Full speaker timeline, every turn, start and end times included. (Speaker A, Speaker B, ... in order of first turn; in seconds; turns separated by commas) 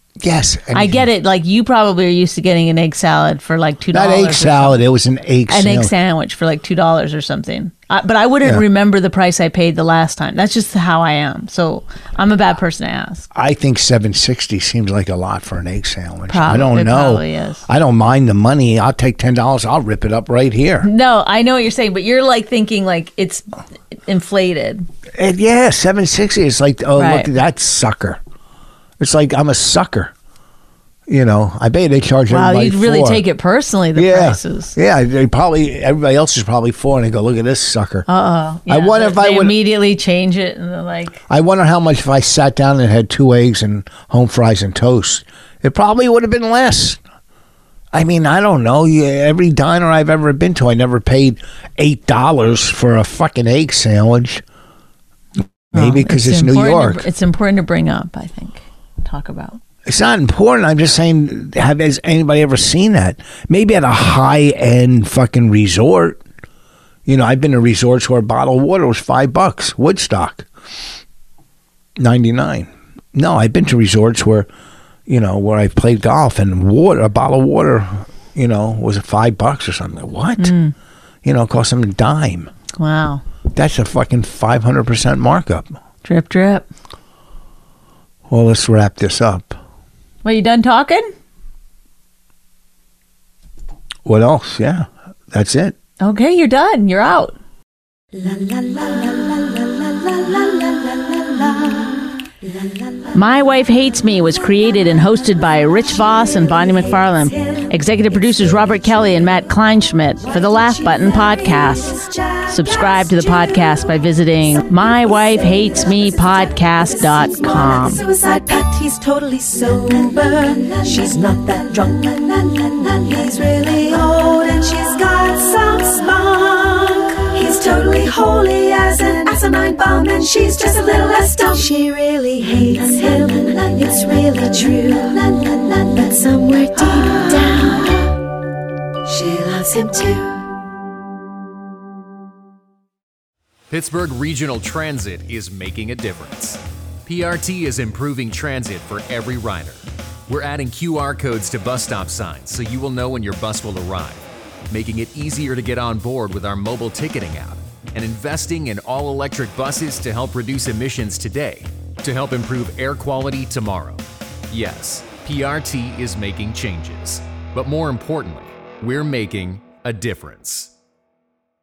Speaker A: 0.2-1.1, Speaker B: 0.7-4.8, Speaker A: 3.9-5.9, Speaker B: 5.5-13.3, Speaker A: 13.3-20.9, Speaker B: 16.3-17.6, Speaker B: 20.8-24.9, Speaker A: 25.1-28.2, Speaker B: 26.9-27.3, Speaker A: 29.0-30.1, Speaker A: 31.1-33.2, Speaker B: 32.3-34.8, Speaker A: 34.0-38.0, Speaker B: 38.1-41.2, Speaker A: 38.7-39.5, Speaker A: 41.3-47.0, Speaker A: 47.9-54.4, Speaker A: 55.7-57.0, Speaker B: 55.7-59.6, Speaker A: 59.8-66.2, Speaker A: 67.0-70.5, Speaker A: 72.0-74.5, Speaker A: 75.1-80.5, Speaker B: 80.4-80.7, Speaker A: 81.2-82.5, Speaker B: 82.8-83.2, Speaker A: 83.5-85.7, Speaker B: 86.0-86.7, Speaker A: 88.3-89.6, Speaker B: 90.2-91.1, Speaker A: 94.0-95.8, Speaker B: 96.0-97.4, Speaker C: 98.1-103.2, Speaker B: 103.1-112.0, Speaker C: 104.5-109.4, Speaker C: 110.2-138.2, Speaker B: 112.5-118.0, Speaker C: 139.0-140.6, Speaker D: 143.7-170.7